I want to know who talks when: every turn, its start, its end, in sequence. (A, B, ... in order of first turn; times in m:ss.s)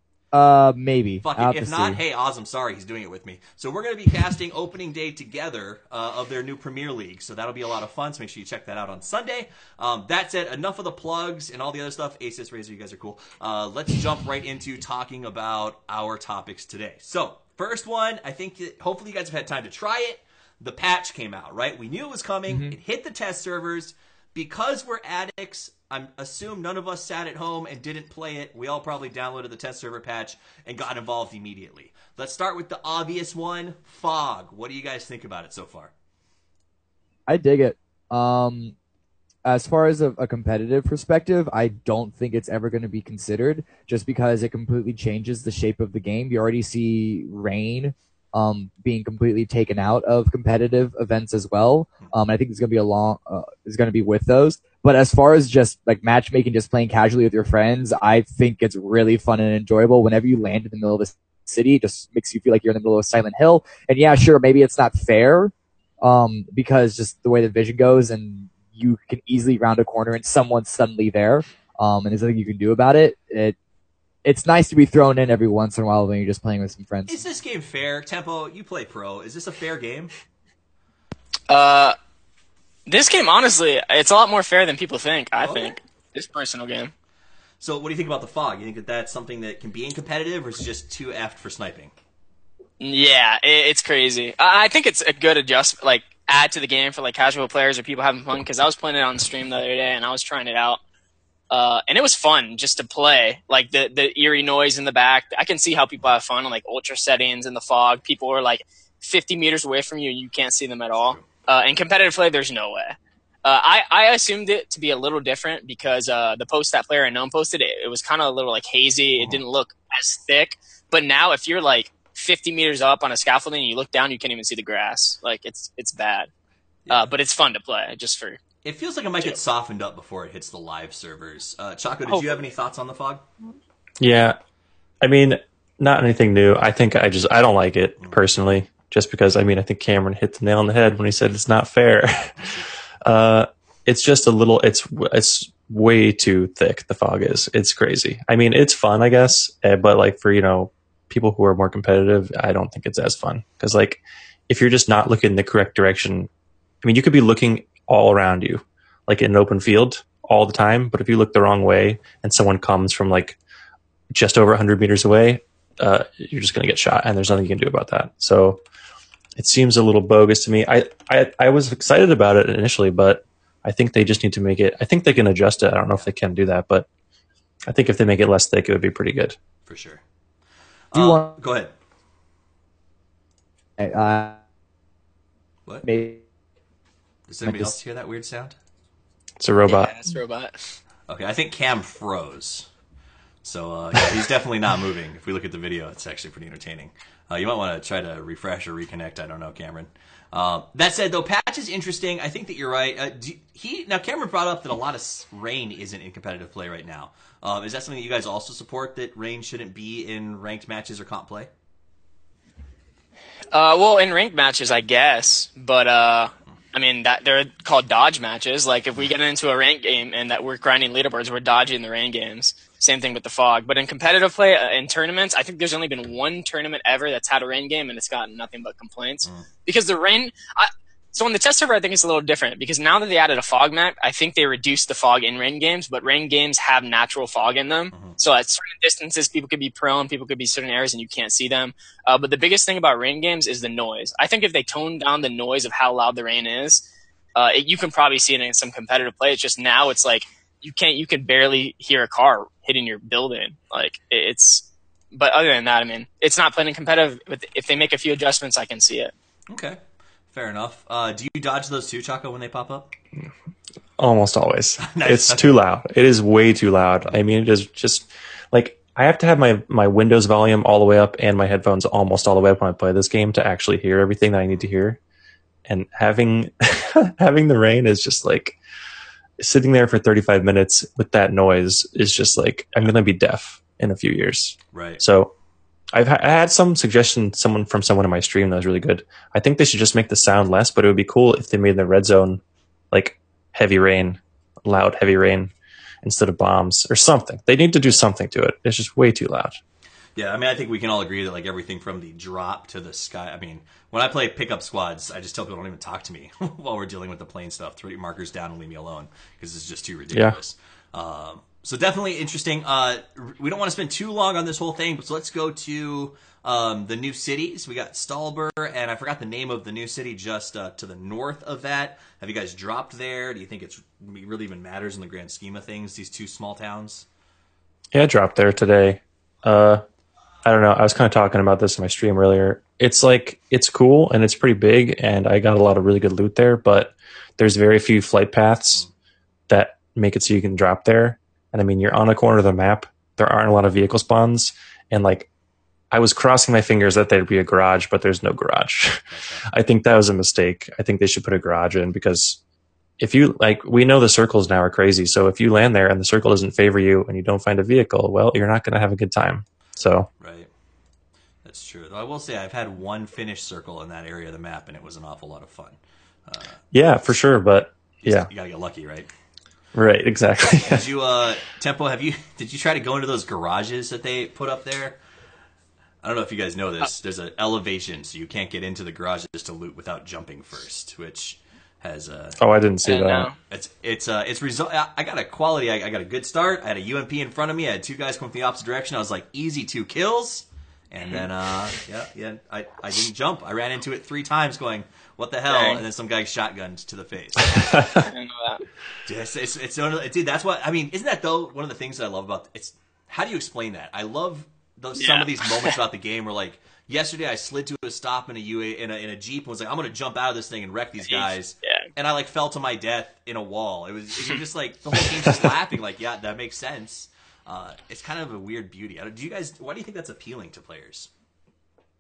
0:00.3-0:02.0 A
0:01.2-0:35.9 B
0:22.5-0:22.8 A
0:37.3-0:38.8 A
0:39.4-1:13.6 A
1:14.2-1:17.2 A
1:17.1-1:20.1 B
1:21.5-1:22.0 C
1:22.9-1:26.9 C
1:25.4-1:25.7 B
1:27.6-1:31.9 B
1:32.8-1:40.8 C
1:41.5-2:06.3 C
1:50.9-1:51.3 B
2:06.9-2:08.4 C
2:08.6-2:13.2 B
2:12.1-2:12.4 C
2:14.0-2:14.4 D
2:15.0-2:36.3 D
2:18.0-2:18.3 B
2:36.8-2:43.4 D
2:44.1-2:48.6 D
2:49.4-2:56.9 D
2:57.7-2:59.4 D
2:59.7-3:00.0 B
3:00.9-3:01.7 B
3:01.0-3:01.3 A
3:03.8-3:04.4 A
3:05.8-3:06.2 A
3:07.3-3:08.6 B
3:07.4-3:07.7 A
3:09.4-3:09.9 D
3:09.7-3:10.8 C
3:11.1-3:12.7 B
3:13.4-3:31.5 B
3:33.5-4:06.8 C
3:57.9-3:58.2 B
4:07.4-4:19.1 C
4:19.5-4:19.8 B
4:20.3-4:22.9 B
4:24.0-4:35.0 D
4:24.8-4:25.6 B
4:35.7-4:38.6 D
4:39.4-4:45.3 D
4:44.7-4:45.0 B
4:45.9-4:59.6 D
5:00.2-5:27.1 B
5:27.9-5:29.8 D
5:30.4-5:38.9 D
5:39.5-5:45.3 D
5:45.9-5:52.4 D
5:49.1-5:49.5 B
5:53.0-6:00.1 D
6:00.2-6:00.5 B
6:01.4-6:06.6 B
6:06.7-6:08.3 D
6:08.0-6:09.1 B
6:09.8-6:10.9 D
6:10.6-6:15.0 B
6:16.0-6:22.4 B
6:22.4-6:23.3 D
6:22.8-6:23.4 C
6:23.5-6:38.0 B
6:35.5-6:35.8 C
6:38.0-6:38.6 C
6:39.0-7:01.1 B
6:45.0-6:45.7 C
6:51.0-6:51.9 C